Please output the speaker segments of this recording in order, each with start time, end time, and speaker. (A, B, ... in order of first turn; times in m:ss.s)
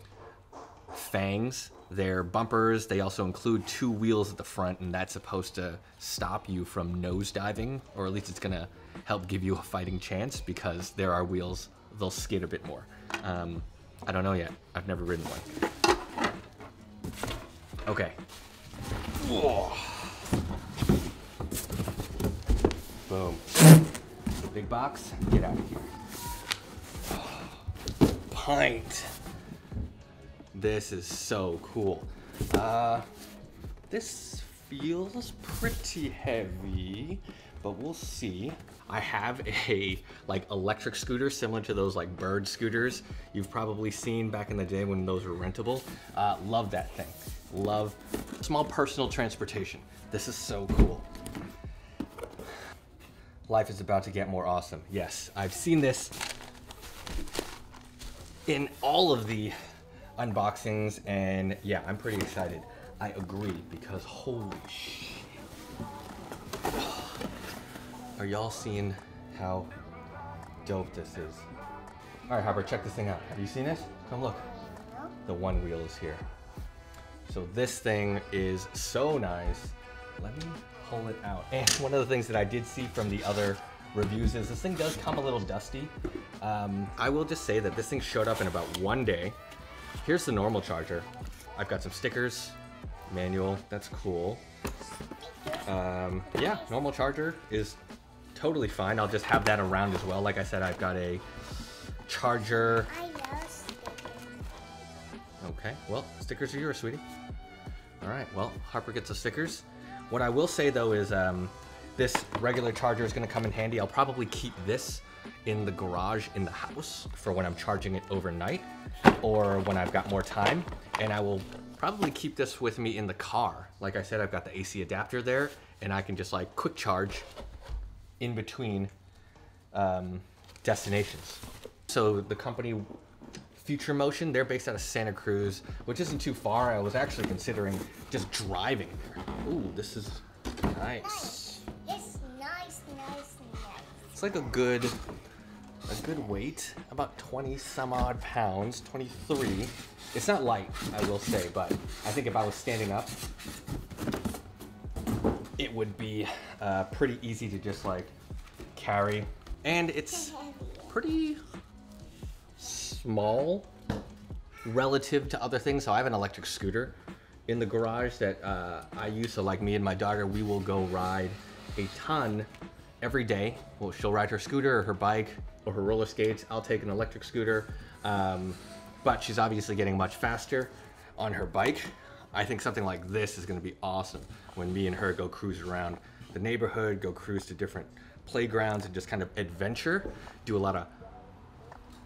0:00.9-0:15.6 A
0:17.8-0:18.2 A
0:19.1-0:20.2 A
0:23.0-0:23.6 A
0:24.5-0:25.9 A
0:27.0-0:27.7 A
0:28.3-0:29.2 A
0:30.5-0:33.1 A
0:33.9-0:51.1 A
0:53.5-0:56.2 A
0:58.5-0:59.6 A
1:00.2-1:05.4 A
1:06.7-1:07.2 A
1:08.2-1:09.7 A
1:10.6-1:11.5 A
1:12.3-1:14.5 A
1:14.6-1:15.1 B
1:15.2-1:16.2 A
1:17.2-1:29.4 A
1:30.0-1:32.6 A
1:33.1-1:34.4 A
1:35.2-1:35.6 B
1:35.6-1:37.8 A
1:38.3-1:41.2 A
1:42.0-1:43.0 A
1:42.9-1:44.5 B
1:45.4-1:47.0 A
1:48.0-1:58.7 A
1:59.2-2:07.3 A
2:08.2-2:08.9 A
2:09.7-2:12.9 A
2:13.5-2:21.7 A
2:21.3-2:24.1 B
2:24.1-2:25.0 A
2:25.8-2:33.2 A
2:35.6-2:38.1 A
2:38.7-2:41.4 A
2:40.3-2:40.9 B
2:42.6-2:43.7 A
2:44.6-2:46.9 A
2:47.5-2:52.5 A
2:53.0-3:10.9 A